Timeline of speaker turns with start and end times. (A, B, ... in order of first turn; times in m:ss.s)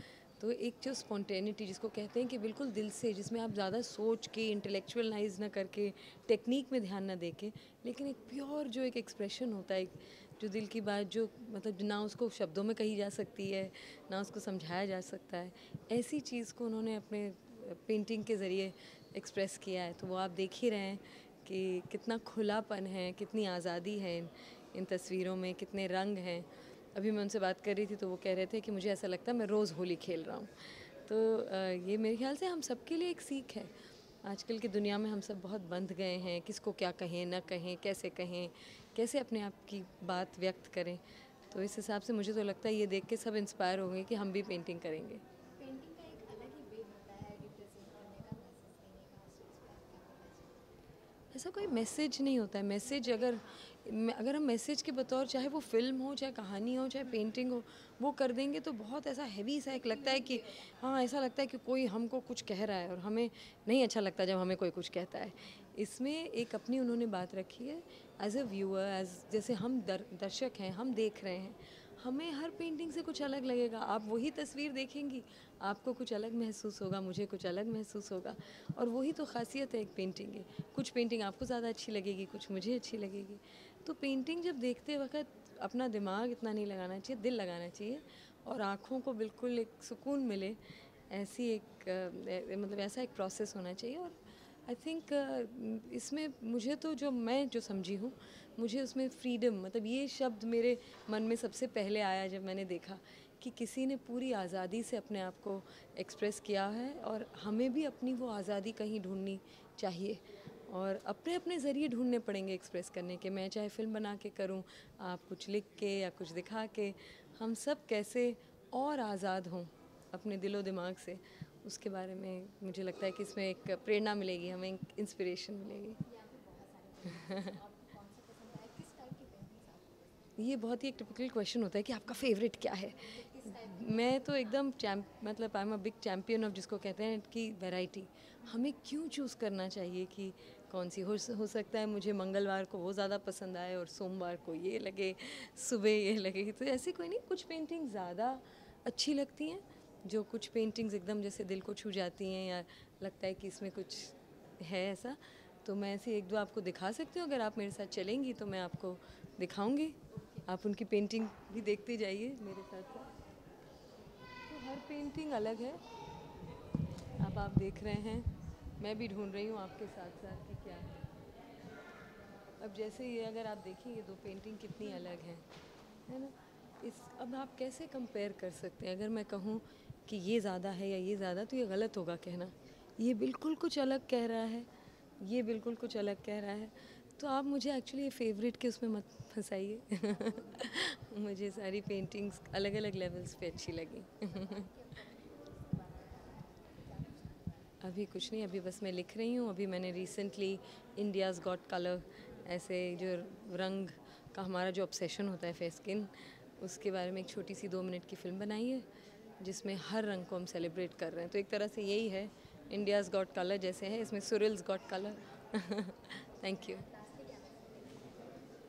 0:00.4-0:33.7 A
0:34.2-0:45.2 A
0:45.5-0:50.8 B
0:51.3-2:06.0 A
0:52.8-0:53.7 B
0:59.7-1:00.9 B
1:05.4-1:05.8 B
2:06.0-2:10.4 B
2:10.4-2:43.1 A
2:13.0-2:14.7 B
2:40.1-2:40.4 B
2:44.5-2:45.8 A
2:47.2-2:51.0 A
2:52.6-2:55.4 A
2:56.1-3:04.7 A
3:05.2-3:14.7 A
3:10.0-3:10.7 B
3:14.2-3:17.8 B
3:17.8-3:28.9 A
3:29.4-3:36.8 A
3:36.4-3:38.6 B